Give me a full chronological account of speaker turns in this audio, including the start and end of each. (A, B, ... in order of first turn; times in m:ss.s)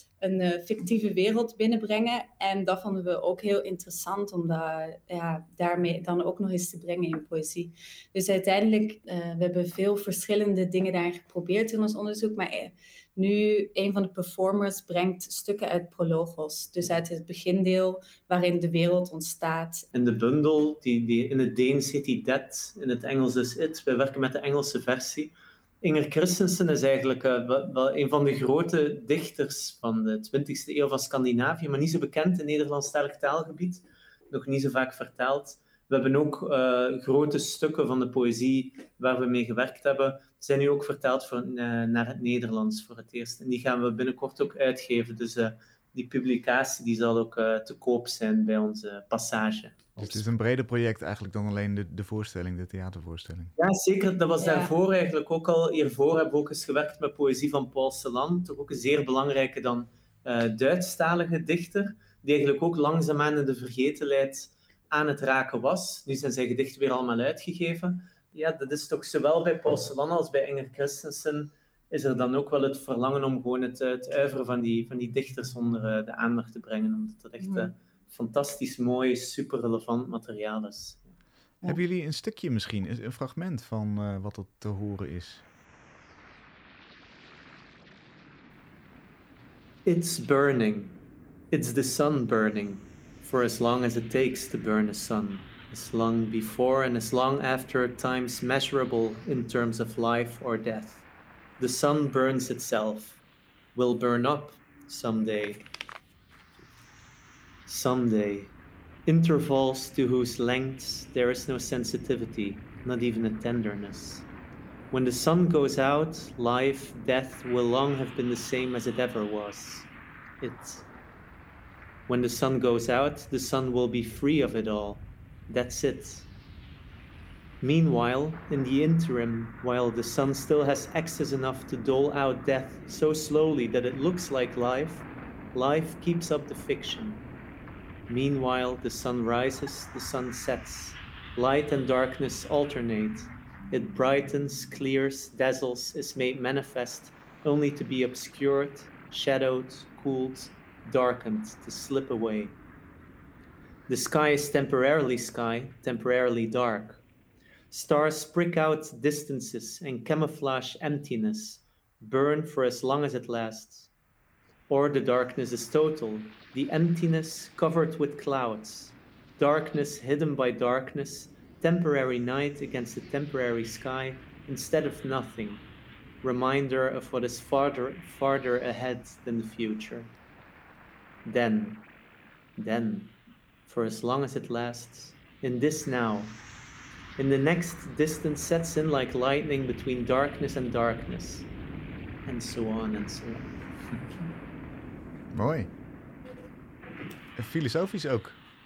0:00.2-0:19.8 A
0:19.9-0:50.3 B
0:50.0-0:53.5 C
0:53.6-1:21.1 B
0:54.4-0:54.7 A
1:17.4-1:17.7 A
1:21.6-1:25.4 C
1:29.8-1:31.0 B
1:31.5-1:41.0 B
1:41.6-1:43.2 B
1:43.8-1:45.7 B
1:47.7-1:48.5 B
1:49.1-1:54.3 B
1:54.9-1:59.9 B
2:00.4-2:00.9 B
2:02.1-2:06.3 B
2:07.6-2:17.2 B
2:18.1-2:32.6 B
2:33.9-2:37.0 B
2:37.7-2:43.9 B
2:44.7-2:55.6 B
2:56.2-3:00.1 B
3:01.3-3:01.9 B
3:02.6-3:06.4 B
3:07.2-3:11.5 B
3:12.3-3:14.1 B
3:15.3-3:15.7 C
3:17.4-3:18.4 C